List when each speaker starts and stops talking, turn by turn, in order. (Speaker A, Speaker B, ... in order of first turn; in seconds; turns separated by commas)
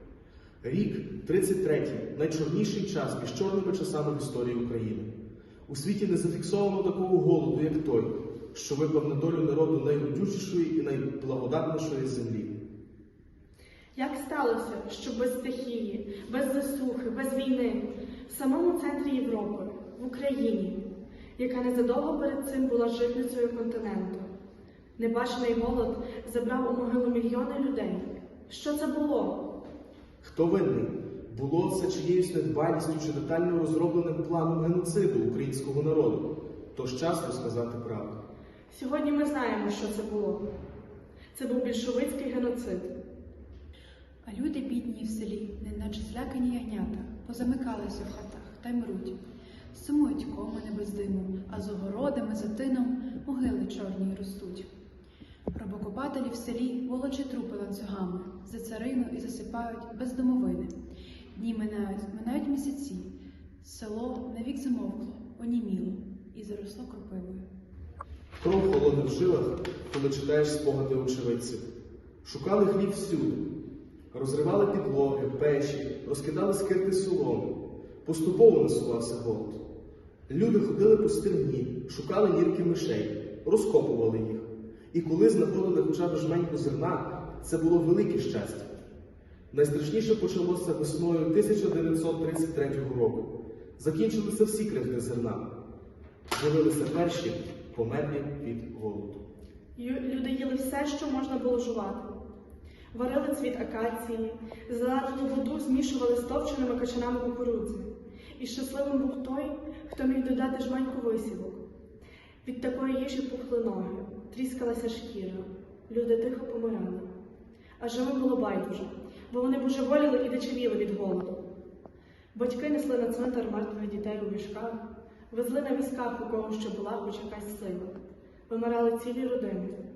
Speaker A: 0.6-5.1, Speaker A: 5.7-12.6, Speaker B: 13.9-20.8, Speaker B: 21.4-24.3, Speaker B: 25.0-29.4, Speaker A: 30.2-38.2, Speaker B: 38.7-40.5, Speaker B: 41.3-42.9, Speaker C: 44.2-49.2, Speaker C: 49.7-54.7, Speaker C: 55.5-60.8, Speaker C: 61.3-67.5, Speaker A: 68.4-71.7, Speaker A: 72.2-73.4, Speaker A: 74.1-77.5, Speaker A: 78.0-79.6, Speaker A: 80.3-88.7, Speaker A: 89.5-95.5, Speaker A: 96.3-99.2, Speaker B: 99.8-102.1, Speaker B: 102.9-111.6, Speaker B: 112.4-117.1, Speaker B: 117.8-121.3, Speaker B: 122.3-127.9, Speaker B: 128.5-129.8